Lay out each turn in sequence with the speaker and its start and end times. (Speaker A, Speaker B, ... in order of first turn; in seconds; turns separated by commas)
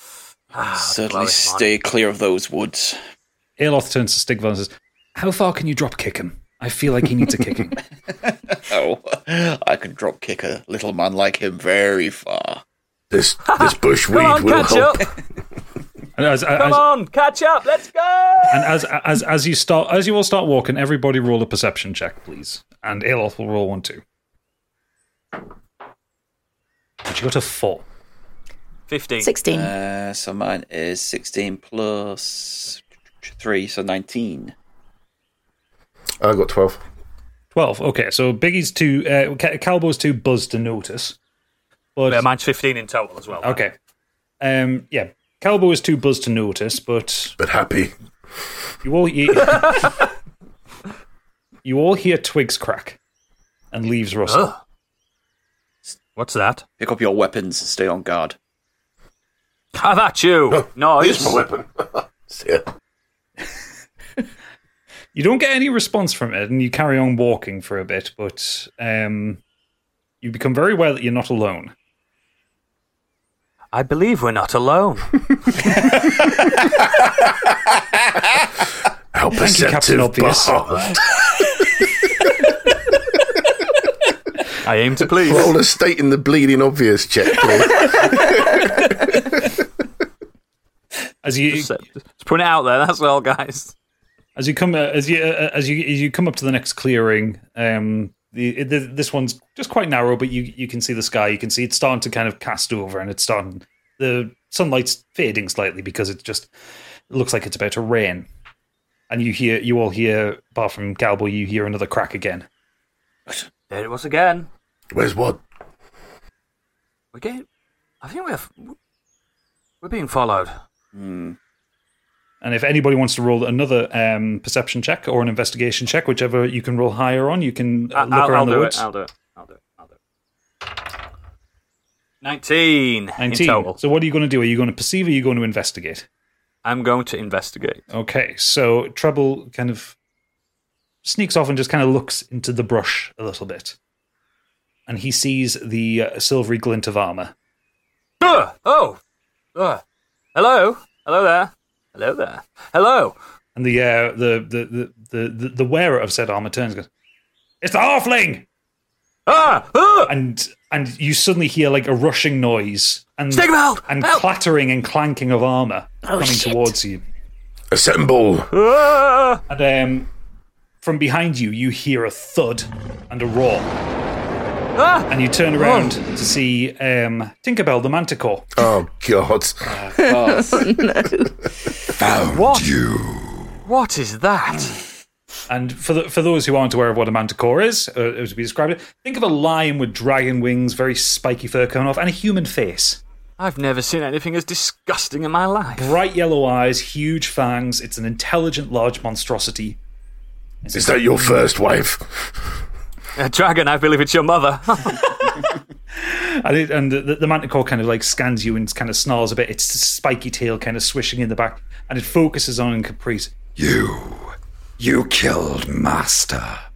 Speaker A: 0.5-1.7, Speaker B: 0.7-3.0, Speaker C: 3.6-7.8, Speaker B: 8.5-12.6, Speaker D: 13.1-15.0, Speaker A: 13.4-15.2, Speaker C: 16.2-16.8, Speaker A: 16.5-18.8, Speaker C: 18.5-24.0, Speaker C: 27.1-27.9, Speaker A: 28.9-29.4, Speaker E: 29.2-29.7, Speaker B: 29.5-34.5, Speaker D: 36.2-36.8, Speaker C: 37.5-41.2, Speaker C: 42.0-42.3, Speaker A: 42.1-43.6, Speaker C: 43.4-43.7, Speaker C: 44.4-47.4, Speaker D: 47.4-47.9, Speaker C: 48.8-49.9, Speaker A: 49.6-49.9, Speaker C: 51.6-53.0, Speaker C: 53.7-54.5, Speaker A: 54.3-54.6, Speaker A: 56.2-56.6, Speaker B: 56.8-58.4, Speaker A: 59.8-61.4, Speaker D: 60.5-62.6, Speaker C: 65.1-69.4, Speaker C: 70.2-71.7, Speaker A: 73.7-75.6, Speaker D: 79.1-81.4, Speaker C: 79.3-80.6, Speaker A: 84.6-85.5, Speaker D: 85.2-88.9, Speaker C: 91.2-91.7, Speaker A: 91.5-93.7, Speaker C: 94.4-106.5, Speaker C: 107.1-108.3, Speaker C: 109.1-112.5, Speaker A: 113.7-114.5, Speaker D: 114.9-115.4, Speaker A: 117.1-117.5, Speaker A: 118.0-118.8, Speaker A: 119.8-120.5, Speaker B: 120.9-121.4, Speaker C: 122.4-128.8, Speaker A: 128.0-129.9, Speaker A: 132.2-133.8, Speaker C: 133.2-136.1, Speaker A: 136.7-137.8, Speaker C: 137.9-140.0, Speaker C: 141.0-143.8, Speaker C: 144.9-147.3, Speaker A: 148.2-149.0, Speaker A: 149.6-149.8, Speaker A: 150.3-153.2, Speaker C: 153.6-156.9, Speaker C: 157.6-158.5, Speaker A: 159.3-160.1, Speaker C: 160.1-167.0, Speaker A: 163.3-164.3, Speaker E: 166.1-166.7, Speaker D: 167.7-168.5, Speaker A: 168.5-169.4, Speaker C: 169.5-170.1, Speaker C: 170.8-173.7, Speaker A: 174.8-176.0, Speaker C: 175.1-178.5, Speaker D: 178.6-179.6, Speaker B: 179.7-180.6, Speaker E: 180.2-181.3, Speaker F: 182.0-183.6, Speaker A: 182.3-182.7, Speaker A: 183.7-184.8, Speaker C: 185.5-193.0, Speaker A: 193.4-196.0, Speaker C: 195.7-199.8, Speaker C: 200.6-201.4, Speaker D: 200.7-202.3, Speaker A: 203.2-205.2, Speaker C: 206.0-213.3, Speaker F: 213.6-216.6